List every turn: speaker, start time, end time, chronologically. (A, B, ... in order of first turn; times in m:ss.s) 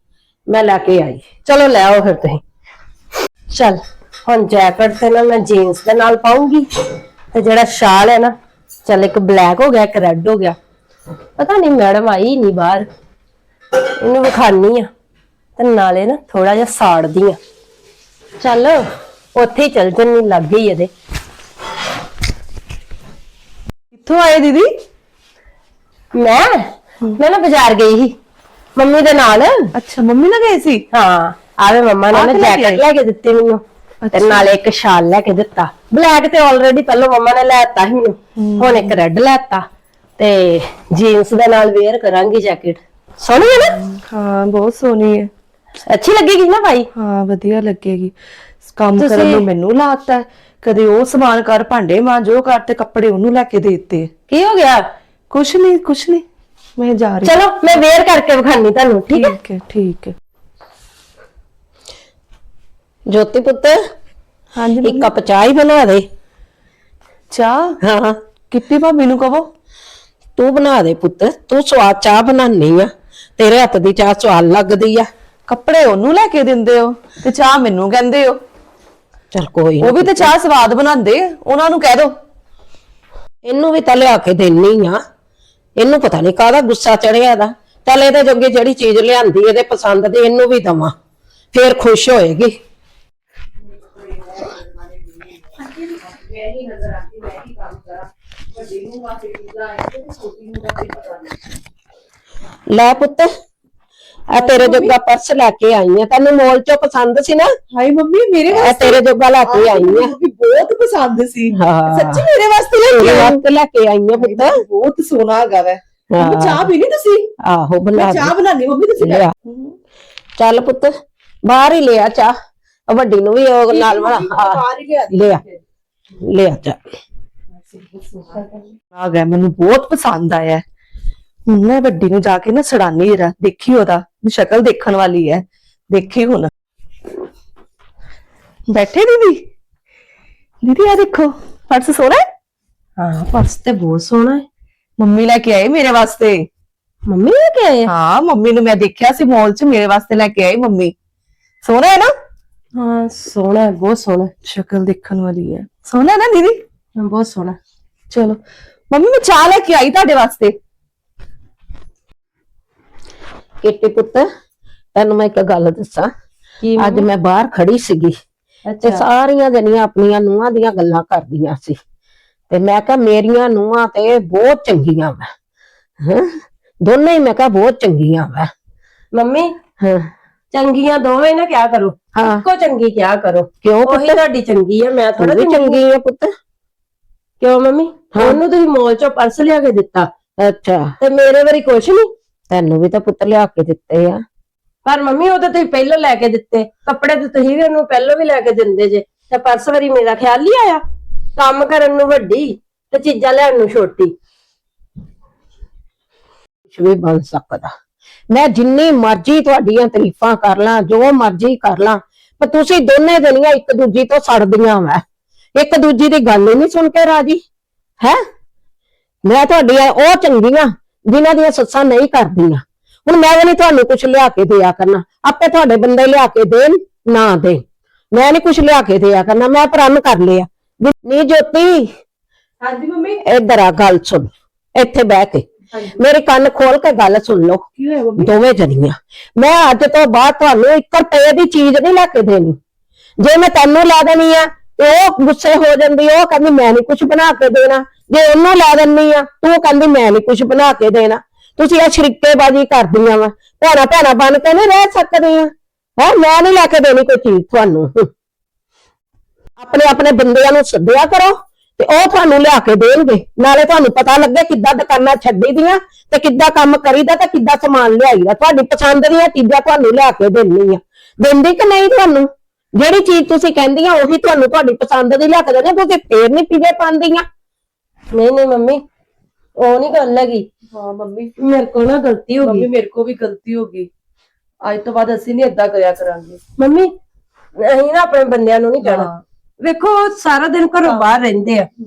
0:00.5-0:01.3 A
0:01.4-0:02.4 B
0:03.5-0:06.7 B
0:07.3-0:08.3 B
0:08.9-0:10.5 B
0:11.4-0:12.9 B
0:14.0-0:14.9 B
0:15.6-0:17.4 B
0:18.4-0:18.8 B
0:19.4-0:20.9 B
0:23.9-0:24.7 C
0:26.1-0:28.1 B
0:28.8-0:29.7 B
0:29.8-0:30.8 C
0:30.9-0:33.6 B
0:32.1-0:32.8 C
0:34.0-0:34.5 C
0:34.1-0:39.6 B
0:38.4-0:39.0 C
0:40.2-0:43.8 B
0:43.7-0:45.3 C
0:45.9-0:46.9 B
0:47.0-0:48.1 C
0:48.7-0:54.1 C
0:49.0-0:49.4 B
0:54.3-0:54.8 B
0:55.3-0:56.2 C
0:56.8-0:57.4 C
0:57.2-0:59.4 B
0:59.1-1:00.1 C
1:03.1-1:03.8 A
1:04.6-1:05.1 C
1:04.8-1:06.0 A
1:07.3-1:07.8 C
1:07.8-1:08.2 A
1:08.5-1:09.5 C
1:10.4-1:15.1 A
1:15.5-1:18.4 C
1:19.3-1:20.3 A
1:19.8-1:22.1 C
1:23.4-1:25.0 A
1:25.8-1:30.9 A
1:31.5-1:32.6 A
1:33.7-1:41.4 C
1:42.7-1:43.3 A
1:44.3-1:47.5 A
1:44.3-1:44.9 C
1:47.7-1:53.4 C
1:48.5-1:50.1 A
1:51.5-1:52.2 A
1:52.9-1:54.6 A
1:54.1-1:57.3 C
1:56.1-1:56.7 A
1:57.4-1:58.3 A
1:57.9-1:59.8 C
1:59.0-1:59.3 A
2:00.4-2:00.9 A
2:01.4-2:02.3 A
2:02.9-2:05.4 A
2:03.7-2:05.6 C
2:06.2-2:06.8 A
2:07.7-2:10.6 C
2:11.5-2:16.5 C
2:18.7-2:19.4 C
2:20.6-2:22.2 C
2:23.0-2:24.4 B
2:25.0-2:26.4 C
2:27.1-2:27.9 B
2:27.9-2:30.9 C
2:31.6-2:32.1 C
2:32.8-2:34.3 B
2:34.4-2:36.6 C
2:37.0-2:37.6 B
2:38.1-2:38.4 C
2:38.9-2:40.5 C
2:43.6-2:44.3 A
2:44.9-2:46.1 A
2:46.6-2:47.1 B
2:46.8-2:48.1 A
2:48.7-2:49.0 B
2:48.8-2:51.8 A
2:52.5-2:55.2 A
2:56.0-2:58.5 A
2:59.1-2:59.5 B
2:59.8-3:00.1 A
3:00.5-3:05.8 B
3:02.1-3:02.4 A
3:03.6-3:04.2 A
3:05.2-3:06.3 A
3:07.4-3:10.1 B
3:08.1-3:08.4 A
3:10.4-3:10.9 A
3:11.0-3:12.1 B
3:12.5-3:14.2 A
3:14.8-3:20.8 B
3:21.4-3:24.1 B
3:26.7-3:27.7 A
3:28.3-3:35.0 A
3:35.6-3:37.4 A
3:39.2-3:51.9 A
3:52.6-3:53.2 C
3:53.2-3:57.6 A
3:55.7-3:56.0 C
3:57.8-3:58.3 C
3:58.2-4:02.6 A
4:03.2-4:18.1 A
4:19.6-4:37.2 A
4:38.2-4:38.8 B
4:39.6-4:40.4 B
4:40.7-4:41.3 C
4:41.4-4:42.7 B
4:42.4-4:43.9 C
4:44.6-4:46.4 C
4:46.6-4:46.9 B
4:47.6-4:49.1 B
4:48.8-4:49.2 C
4:49.6-4:51.7 B
4:50.8-4:51.2 C